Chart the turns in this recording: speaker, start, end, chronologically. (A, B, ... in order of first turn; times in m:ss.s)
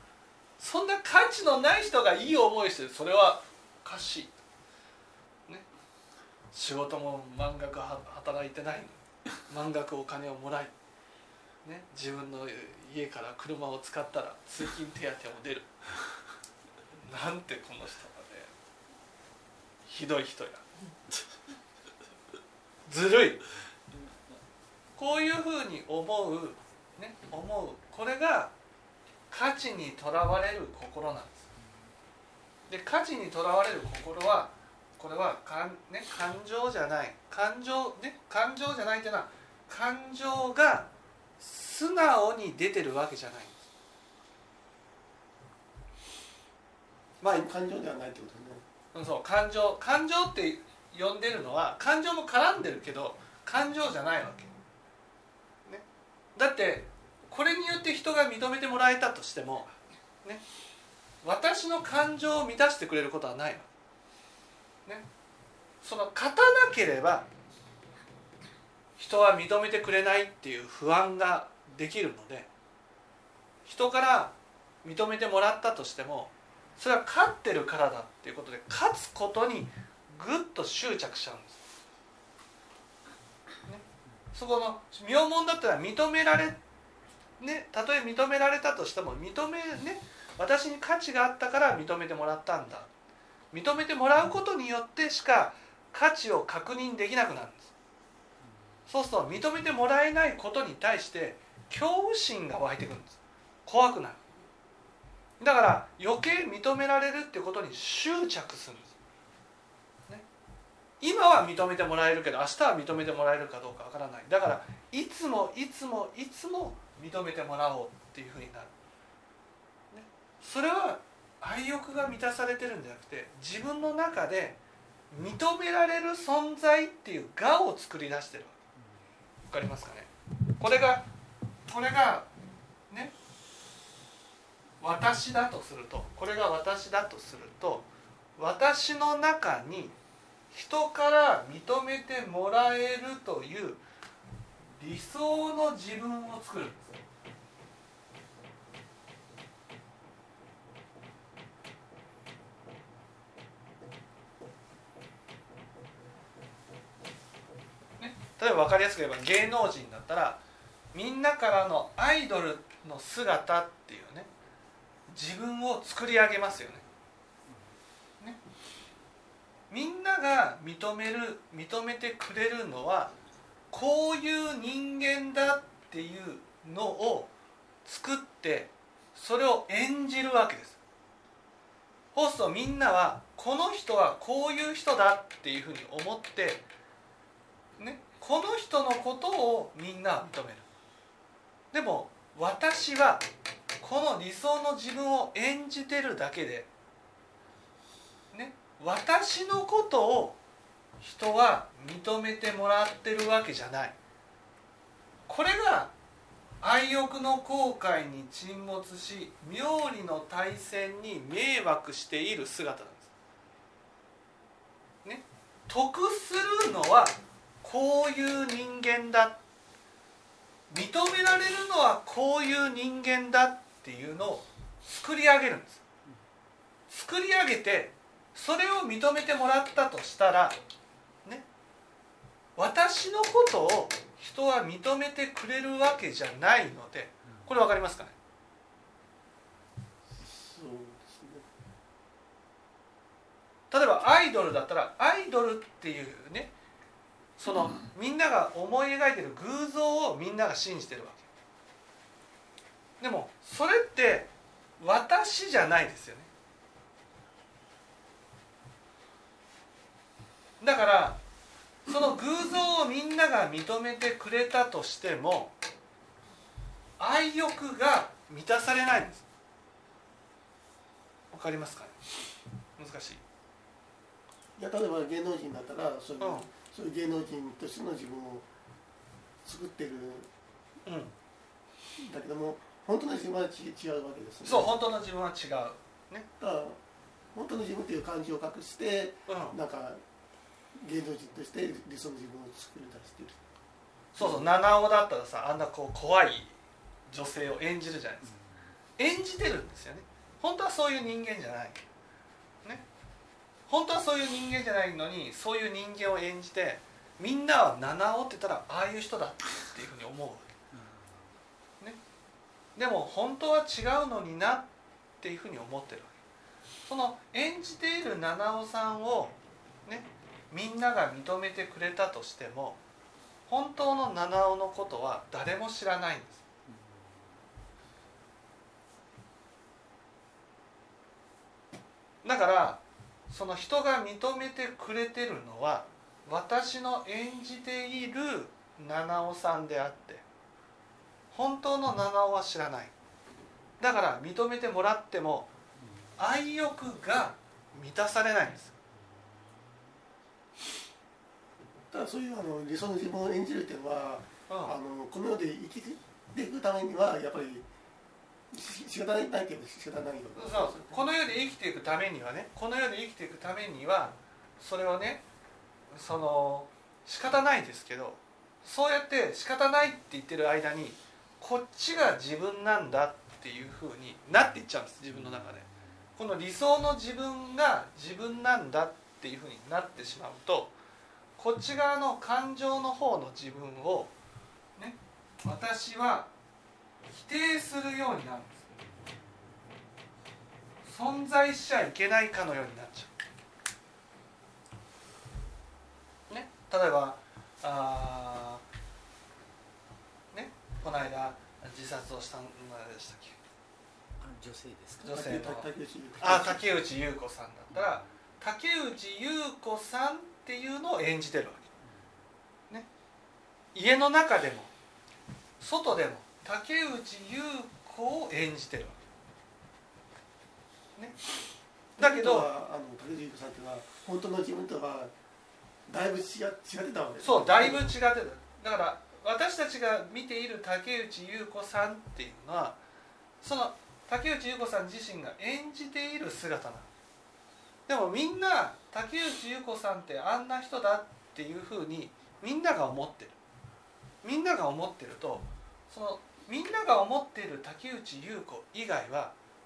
0:00.6-0:04.4 A
0:06.5-0:10.7 A
0:11.6-0:15.7 A
0:17.0-0:18.5 A
0:19.9-0:20.6 A
0:22.9-0:23.4 A
0:25.0-0:28.5 A
0:29.3-0:31.4 A
0:32.7-0:43.6 A
0:47.2-0:47.5 A
0:47.2-0:48.6 B
0:48.9-0:54.6 A
0:56.4-1:00.4 A
1:01.2-1:03.7 A
1:05.8-1:07.3 A
1:09.0-1:12.5 A
1:13.7-1:21.6 A
1:23.7-1:26.6 A
1:27.4-1:32.9 A
1:33.5-1:37.7 A
1:38.9-1:44.2 A
1:45.4-1:49.0 A
1:51.0-1:58.7 A
1:59.9-2:04.6 A
2:05.1-2:08.6 A
2:09.5-2:10.1 A
2:10.6-2:11.0 A
2:11.7-2:12.3 A
2:14.8-2:20.0 A
2:20.5-2:23.8 A
2:24.8-2:26.9 A
2:38.0-2:40.4 A
2:40.9-2:44.3 A
2:45.1-2:46.8 A
2:49.7-2:53.1 A
2:53.7-2:57.3 A
2:57.8-3:00.8 A
3:02.1-3:06.6 A
3:07.8-3:10.6 A
3:11.7-3:13.2 A
3:13.8-3:16.7 A
3:18.3-3:20.4 A
3:21.0-3:24.0 A
3:25.3-3:25.9 A
3:26.6-3:33.1 A
3:35.0-3:39.4 A
3:40.7-3:45.8 A
3:46.9-3:50.6 A
3:52.6-3:58.2 A
4:00.2-4:01.5 B
4:03.7-4:06.5 A
4:07.4-4:11.3 A
4:13.0-4:16.3 A
4:20.6-4:21.2 A
4:21.9-4:25.6 A
4:27.0-4:29.2 A
4:31.3-4:32.0 A
4:32.8-4:33.2 A
4:34.6-4:38.5 B
4:36.2-4:36.5 A
4:39.4-4:40.3 B
4:40.9-4:41.1 A
4:42.0-4:44.8 B
4:44.4-4:46.3 A
4:46.4-4:46.8 B
4:47.3-4:50.0 B
4:49.3-4:49.6 A
4:50.8-4:53.4 B
4:54.2-4:56.6 A
4:54.2-4:54.5 B
4:57.1-4:58.3 A
4:58.3-4:58.7 C
4:59.0-5:01.8 A
5:03.7-5:10.5 A
5:10.7-5:11.3 C
5:12.8-5:14.7 A
5:15.2-5:16.1 A
5:16.9-5:22.8 A
5:23.5-5:26.4 A
5:26.7-5:27.3 C
5:32.2-5:40.2 A
5:41.3-5:42.9 A
5:43.8-5:45.5 A
5:45.8-5:46.1 C
5:46.2-5:48.8 A
5:49.0-5:49.8 C
5:51.9-5:57.7 B
5:54.5-5:54.8 A
5:58.5-6:01.0 B
6:00.4-6:05.2 A
6:05.9-6:20.7 A
6:15.1-6:15.6 C
6:21.4-6:24.1 A
6:24.8-6:26.3 A
6:27.1-6:28.6 A
6:30.8-6:33.1 A
6:36.3-6:38.6 A
6:40.3-6:43.4 A
6:44.2-6:45.2 C
6:45.0-6:45.7 A
6:45.1-6:46.7 B
6:46.2-6:51.7 A
6:47.7-6:48.1 C
6:53.7-6:54.7 A
6:55.6-6:59.0 A
7:02.0-7:05.1 B
7:02.0-7:02.5 A
7:05.9-7:08.0 B
7:07.2-7:12.8 A
7:13.4-7:16.9 A
7:17.9-7:23.4 A
7:24.2-7:29.4 A